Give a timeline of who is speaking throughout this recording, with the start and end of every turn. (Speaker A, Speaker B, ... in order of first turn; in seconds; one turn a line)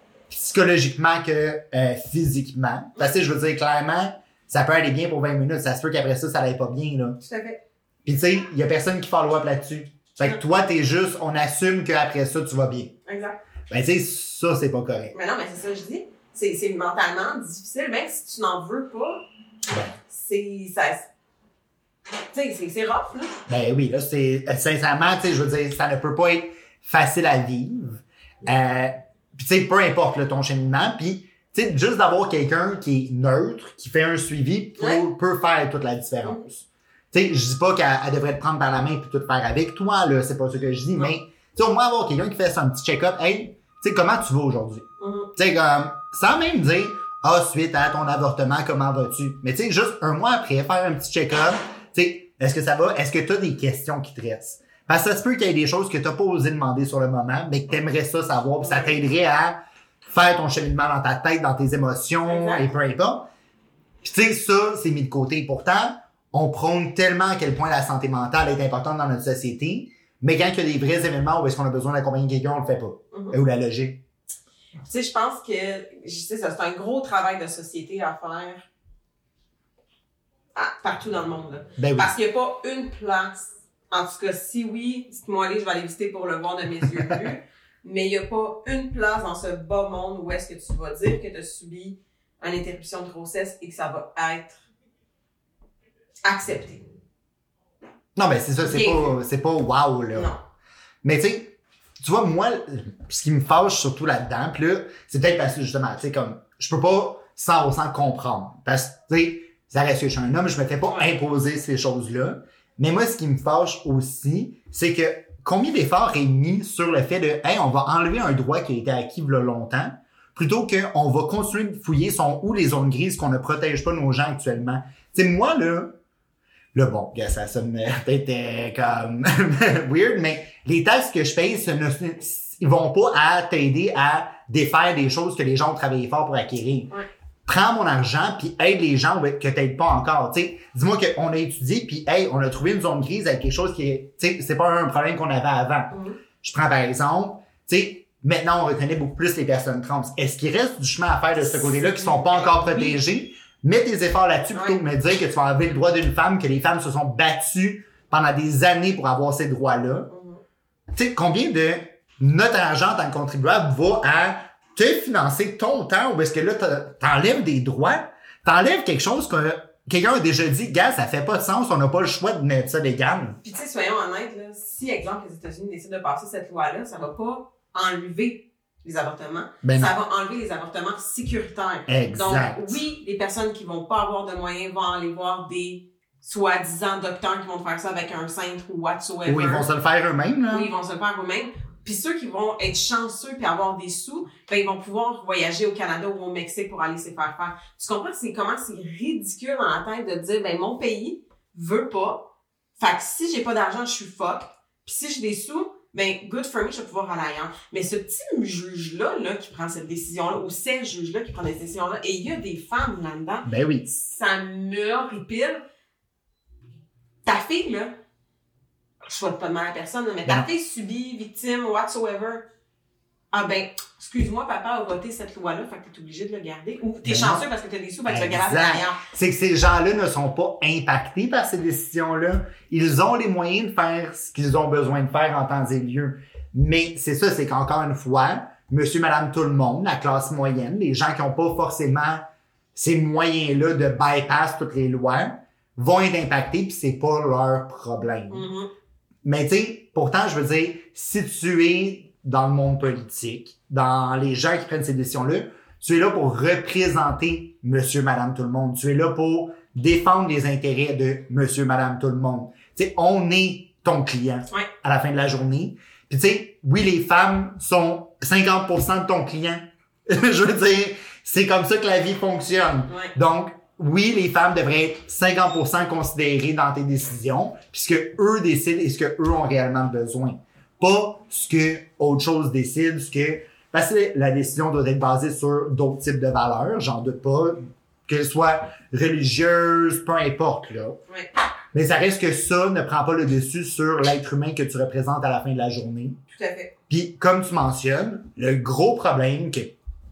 Speaker A: 0.3-7.2
Speaker B: 7.2-7.6
Speaker A: 8.0-12.9
Speaker B: 13.1-13.4
Speaker A: 13.7-15.1
Speaker B: 15.1-19.2
Speaker B: 20.0-21.1
Speaker B: 22.3-23.4
Speaker A: 23.5-63.3
Speaker B: 45.0-45.3
Speaker B: 58.6-59.0
Speaker B: 62.3-62.7
Speaker A: 64.0-74.0
Speaker B: 73.1-73.4
Speaker B: 74.8-78.7
Speaker B: 80.5-94.6
Speaker A: 81.8-82.1
Speaker B: 96.2-96.8
Speaker A: 98.2-100.3
Speaker B: 98.6-99.2
Speaker B: 100.1-100.4
Speaker A: 101.0-126.0
Speaker A: 126.7-136.9
Speaker A: 137.4-160.1
Speaker B: 145.9-146.2
Speaker B: 151.4-153.0
Speaker B: 160.1-160.4
Speaker A: 160.9-173.4
Speaker B: 173.4-189.7
Speaker A: 179.6-179.9
Speaker A: 181.9-182.8
Speaker A: 189.2-190.7
Speaker B: 190.5-202.3
Speaker B: 202.8-215.6
Speaker A: 213.4-213.9
Speaker B: 217.2-217.9
Speaker B: 219.0-222.4
Speaker B: 223.3-229.0
Speaker A: 227.0-227.4
Speaker A: 228.1-242.2
Speaker A: 242.7-248.5
Speaker B: 248.3-248.7
Speaker A: 249.2-291.0
Speaker B: 272.9-273.1
Speaker A: 291.7-296.2
Speaker B: 296.3-296.7
Speaker A: 296.9-299.7